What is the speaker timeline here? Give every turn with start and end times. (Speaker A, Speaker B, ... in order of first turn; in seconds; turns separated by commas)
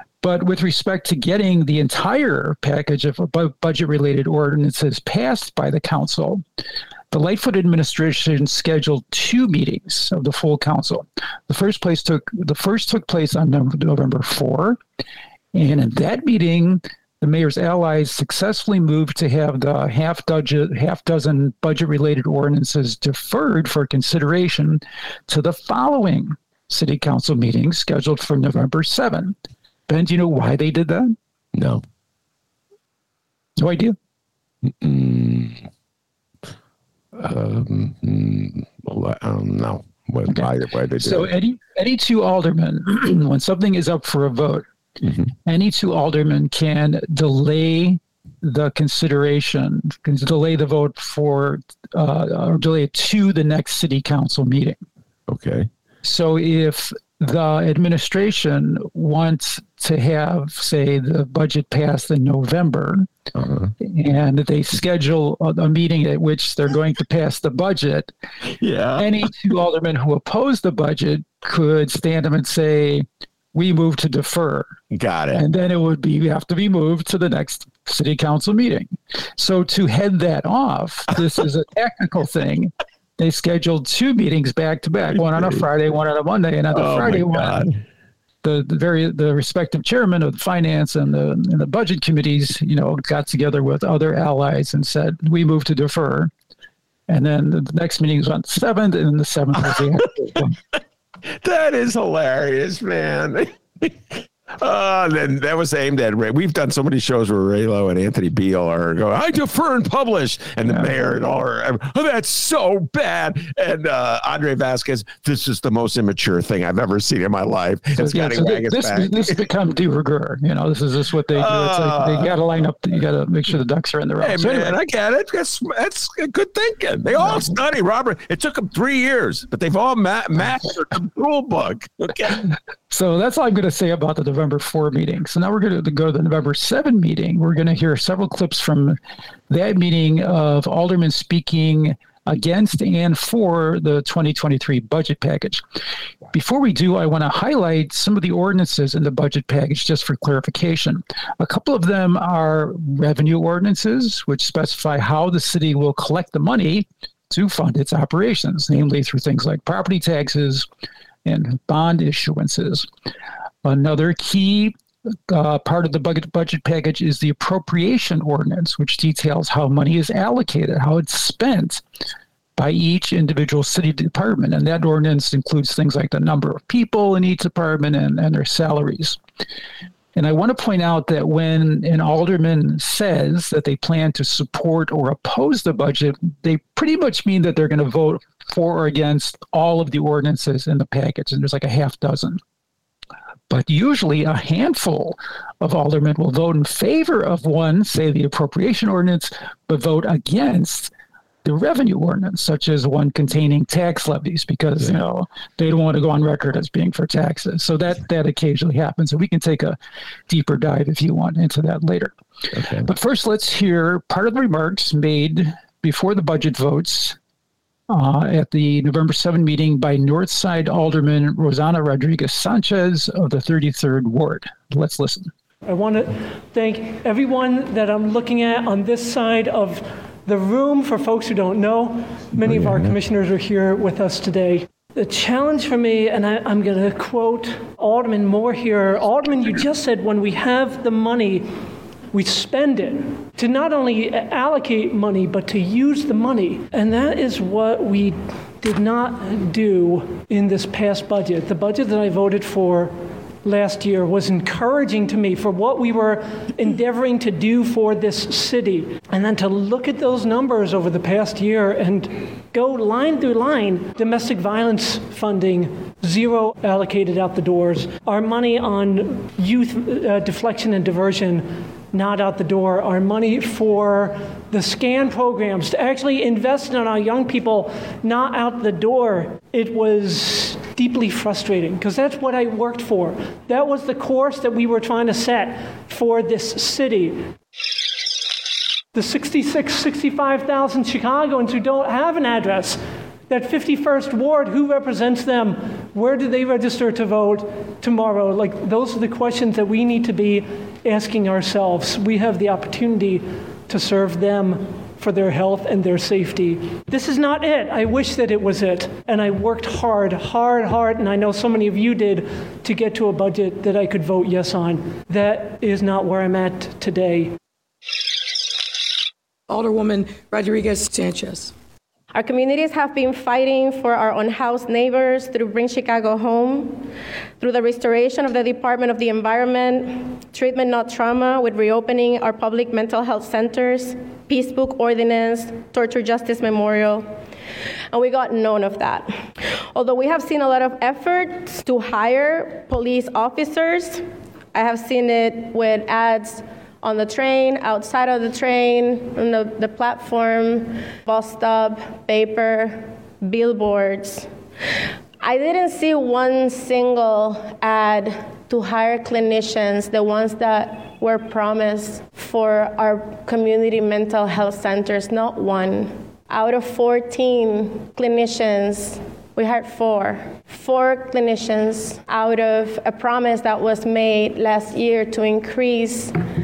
Speaker A: 0.2-6.4, Speaker A: 7.1-14.8, Speaker A: 15.5-29.3, Speaker A: 29.9-31.1, Speaker B: 31.5-31.8, Speaker A: 33.6-34.0, Speaker B: 34.6-35.7, Speaker B: 37.1-41.3, Speaker A: 41.0-44.6, Speaker B: 45.0-45.3, Speaker A: 45.5-54.8, Speaker B: 55.3-55.7, Speaker A: 56.0-63.1, Speaker B: 63.3-63.7, Speaker A: 63.8-68.1, Speaker B: 68.5-69.3, Speaker A: 69.0-74.7, Speaker B: 74.9-75.4, Speaker A: 75.4-87.6, Speaker B: 85.3-85.6, Speaker B: 86.7-87.8, Speaker A: 88.4-96.3, Speaker A: 97.1-100.5, Speaker B: 101.4-119.4, Speaker A: 110.7-110.9, Speaker A: 118.0-124.8, Speaker B: 121.3-122.4, Speaker B: 124.2-132.4, Speaker A: 127.2-127.5, Speaker A: 132.9-138.9, Speaker A: 139.5-145.6, Speaker A: 146.3-160.7, Speaker A: 161.2-162.8, Speaker A: 163.6-164.7, Speaker A: 165.3-171.8, Speaker A: 172.6-179.2, Speaker A: 180.2-192.4, Speaker A: 193.5-200.9, Speaker A: 201.4-209.8, Speaker A: 210.3-212.1, Speaker B: 212.5-212.9, Speaker A: 212.8-217.2, Speaker A: 217.9-225.3, Speaker C: 225.7-241.5, Speaker B: 232.4-233.0, Speaker C: 242.1-287.2, Speaker C: 288.9-317.3, Speaker D: 319.5-321.5, Speaker E: 322.1-326.8, Speaker E: 327.4-337.1, Speaker E: 337.9-339.1, Speaker E: 339.8-344.0, Speaker E: 344.5-354.3, Speaker E: 355.2-376.1